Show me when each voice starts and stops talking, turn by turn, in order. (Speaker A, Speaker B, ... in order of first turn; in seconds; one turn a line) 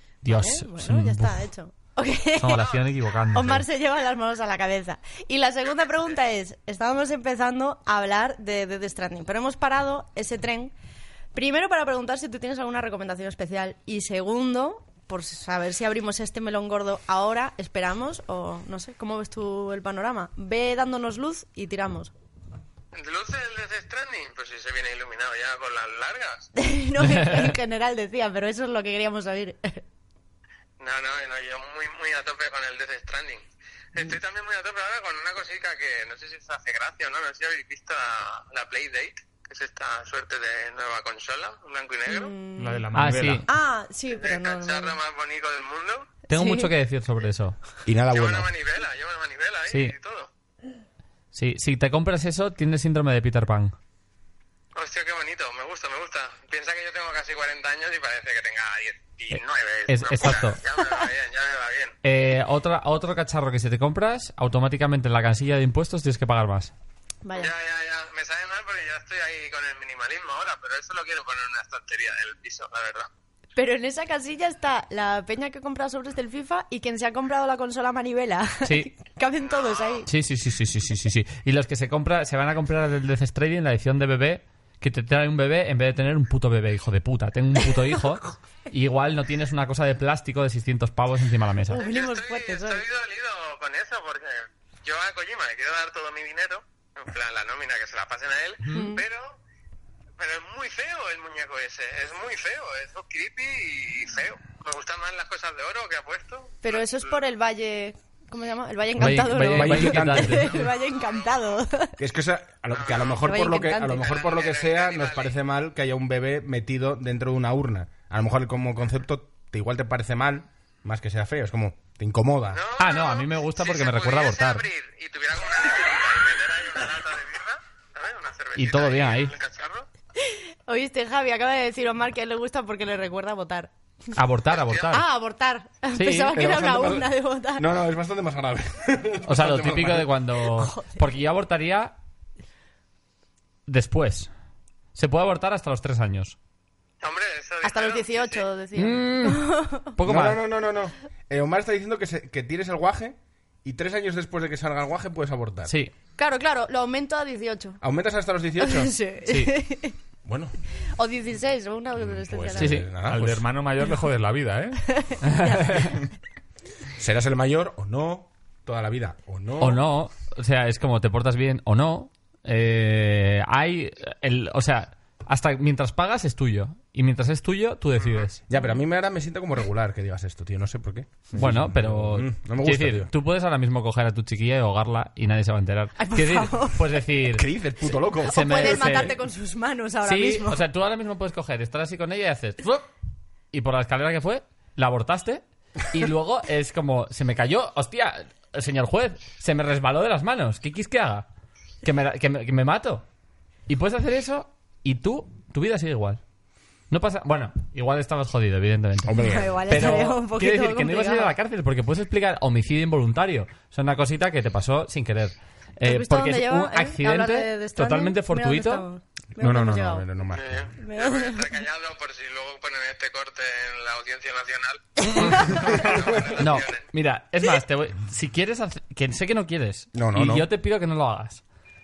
Speaker A: 0.2-1.4
Speaker B: 0.3-2.8
Speaker A: 2.4-3.6
Speaker C: 2.5-2.9
Speaker B: 3.3-10.7
Speaker B: 11.3-22.1
Speaker C: 22.9-26.5
Speaker B: 26.6-29.8
Speaker A: 27.0-27.5
Speaker C: 30.8-42.3
Speaker B: 42.1-42.9
Speaker D: 42.6-43.5
Speaker A: 42.9-43.5
Speaker B: 43.5-45.0
Speaker C: 44.1-46.1
Speaker A: 46.3-47.6
Speaker B: 46.3-46.7
Speaker E: 47.9-48.5
Speaker C: 48.1-50.3
Speaker A: 49.7-49.9
Speaker A: 51.3-53.7
Speaker C: 54.7-62.0
Speaker A: 59.3-60.6
Speaker A: 62.0-66.7
Speaker B: 67.2-67.5
Speaker C: 67.3-73.1
Speaker B: 73.5-80.1
Speaker A: 78.6-78.9
Speaker C: 79.4-80.0
Speaker A: 80.0-91.8
Speaker B: 91.7-92.8
Speaker C: 91.8-99.3
Speaker B: 98.7-99.0
Speaker C: 100.2-107.2
Speaker B: 106.6-112.0
Speaker A: 109.0-110.7
Speaker E: 109.4-110.6
Speaker E: 112.0-122.6
Speaker C: 112.7-113.2
Speaker B: 113.2-114.1
Speaker C: 114.0-115.4
Speaker C: 122.5-129.9
Speaker A: 122.8-124.6
Speaker A: 128.6-129.3
Speaker B: 130.2-133.7
Speaker A: 134.1-135.0
Speaker C: 134.5-134.9
Speaker B: 134.9-137.7
Speaker A: 135.9-136.3
Speaker E: 136.3-140.1
Speaker A: 139.2-141.9
Speaker B: 140.5-141.0
Speaker A: 143.7-144.3
Speaker A: 144.9-146.4
Speaker C: 147.0-148.4
Speaker B: 147.6-149.9
Speaker A: 148.8-150.4
Speaker E: 150.0-155.7
Speaker A: 155.7-155.9
Speaker B: 156.2-157.8
Speaker E: 157.8-158.9
Speaker B: 158.6-160.0
Speaker A: 159.2-159.5
Speaker E: 160.2-160.6
Speaker B: 160.9-162.9
Speaker E: 162.0-163.4
Speaker A: 162.6-162.9
Speaker D: 163.0-164.9
Speaker B: 164.9-165.8
Speaker A: 165.2-165.9
Speaker E: 166.9-169.8
Speaker A: 169.6-178.4
Speaker E: 178.5-183.1
Speaker A: 181.3-187.4
Speaker B: 186.0-187.0
Speaker E: 187.3-189.2
Speaker B: 188.2-190.6
Speaker A: 188.3-189.2
Speaker A: 190.0-192.9
Speaker A: 193.5-201.3
Speaker A: 201.8-203.0
Speaker A: 203.7-206.2
Speaker A: 206.9-218.8
Speaker E: 209.0-209.6
Speaker B: 209.2-211.3
Speaker B: 215.8-220.0
Speaker E: 219.3-220.7
Speaker C: 220.3-226.8
Speaker B: 220.8-221.5
Speaker A: 225.0-225.6
Speaker B: 225.1-225.9
Speaker E: 225.7-226.2
Speaker A: 226.3-231.4
Speaker E: 229.9-230.5